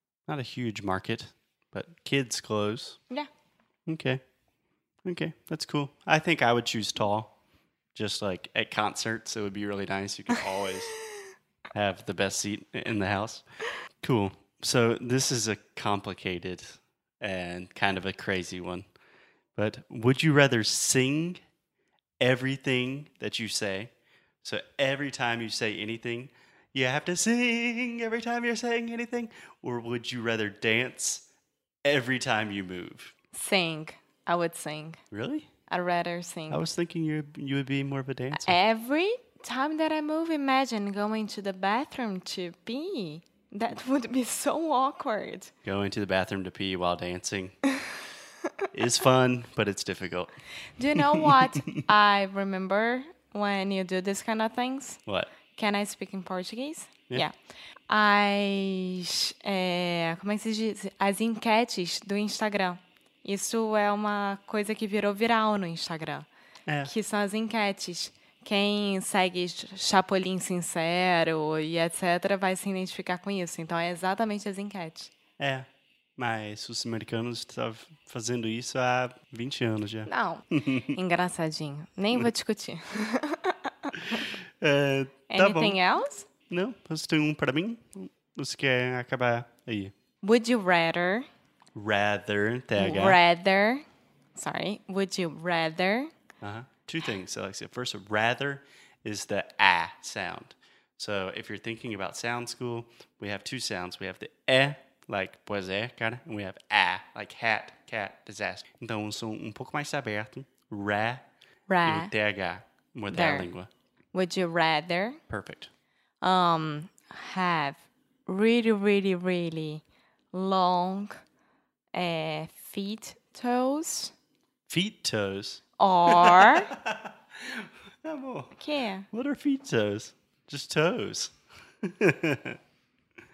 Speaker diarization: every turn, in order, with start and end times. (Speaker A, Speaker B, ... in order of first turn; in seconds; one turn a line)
Speaker A: 0.3-3.0
Speaker A: 3.9-4.2
Speaker A: 5.0-7.3
Speaker A: 7.9-10.9
Speaker A: 11.7-13.4
Speaker A: 14.0-18.8
Speaker A: 19.6-21.4
Speaker A: 22.2-23.9
Speaker A: 24.4-31.2
Speaker A: 31.8-33.1
Speaker B: 33.3-35.0
Speaker A: 35.1-35.5
Speaker B: 35.7-36.6
Speaker A: 36.5-38.6
Speaker B: 38.3-45.5
Speaker A: 45.6-47.5
Speaker A: 48.7-50.3
Speaker B: 50.8-55.0
Speaker A: 51.0-51.8
Speaker A: 55.1-55.3
Speaker B: 55.5-57.3
Speaker B: 57.9-66.3
Speaker A: 66.7-66.9
Speaker B: 66.8-75.1
Speaker A: 75.4-75.7
Speaker A: 76.2-80.9
Speaker B: 80.0-84.3
Speaker A: 84.6-85.8
Speaker B: 85.3-86.3
Speaker A: 86.5-89.9
Speaker B: 90.2-91.2
Speaker A: 91.7-93.2
Speaker B: 92.8-93.8
Speaker B: 94.3-96.1
Speaker A: 96.4-111.2
Speaker B: 111.7-112.1
Speaker A: 111.8-113.7
Speaker B: 113.1-113.5
Speaker B: 114.1-115.2
Speaker A: 115.3-115.7
Speaker B: 116.2-121.1
Speaker B: 121.9-124.1
Speaker A: 124.7-128.6
Speaker B: 125.8-126.7
Speaker B: 128.6-129.1
Speaker A: 129.1-132.6